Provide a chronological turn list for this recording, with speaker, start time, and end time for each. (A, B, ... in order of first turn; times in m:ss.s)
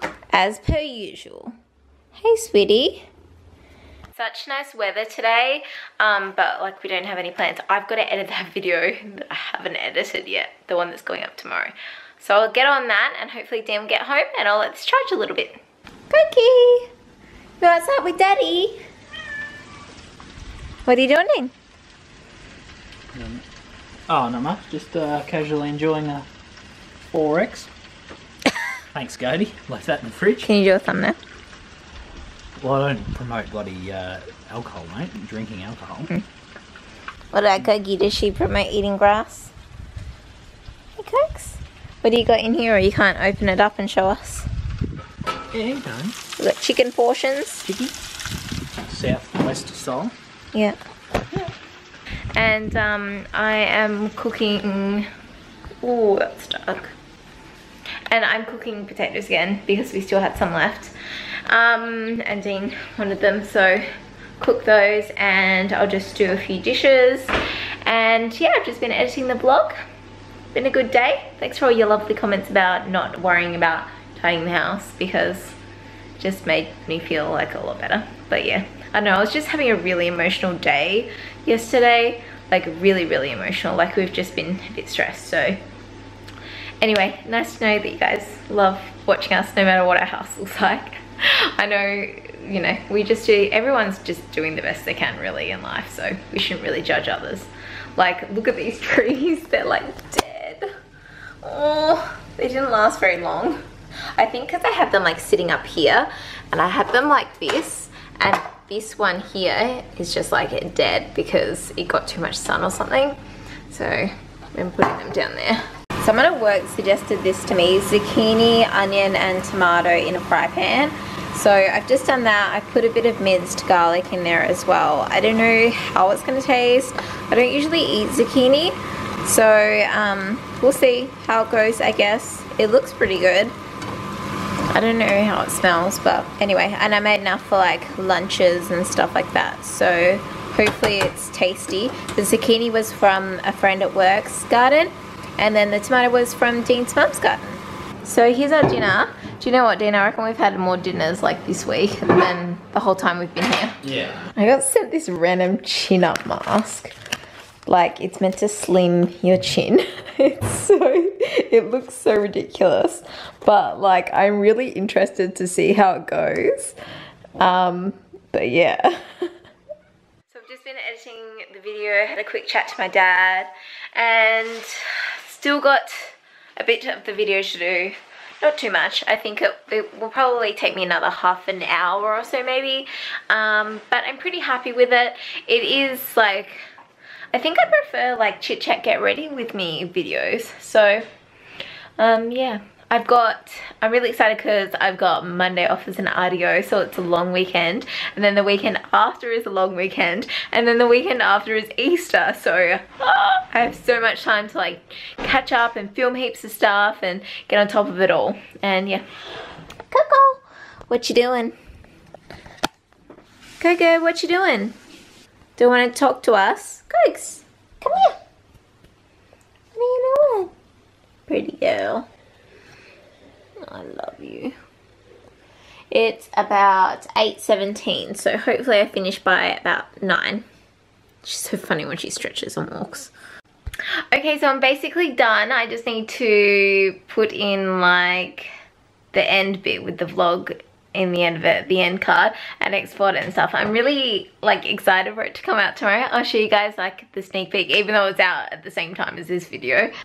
0:00.3-0:01.5 A
0:02.1-0:03.0 A
0:04.1-0:16.9 A
0:17.6-0:18.8 A
0:20.8-0:21.5 A
0:23.1-0:23.4 B
0:24.1-0:26.2 B
0:27.1-0:27.7 B
0:28.9-0:30.5 B
0:30.4-0:31.2 A
0:32.6-0:36.1 B
0:37.3-0:39.5 A
0:41.0-0:44.5 A
0:45.5-0:46.2 B
0:46.4-0:47.7 A
0:47.6-0:47.9 B
0:48.9-0:50.1 B
0:52.3-0:55.1 A
0:55.8-0:56.9 A
0:58.1-1:00.9 A
1:01.5-1:03.8 A
1:04.4-1:07.3 A
1:07.8-1:09.8 A
1:10.5-1:15.6 A
1:16.2-1:25.6 A
1:26.8-1:40.7 A
1:41.4-1:43.6 A
1:44.1-2:13.6 A
2:14.7-2:33.8 A
2:33.9-2:34.2 B
2:34.3-2:36.9 A
2:37.6-2:46.8 A
2:47.4-2:49.3 A
2:50.3-3:06.6 A
3:07.3-3:11.1 A
3:12.0-3:29.0 A
3:29.9-3:31.6 A
3:33.6-3:34.7 A
3:35.6-3:38.2 A
3:39.7-3:40.5 A
3:41.3-3:42.0 A
3:43.6-3:44.6 A
3:45.9-3:50.4 A
3:51.2-3:53.1 A
3:54.1-3:58.5 A
3:59.1-4:09.9 A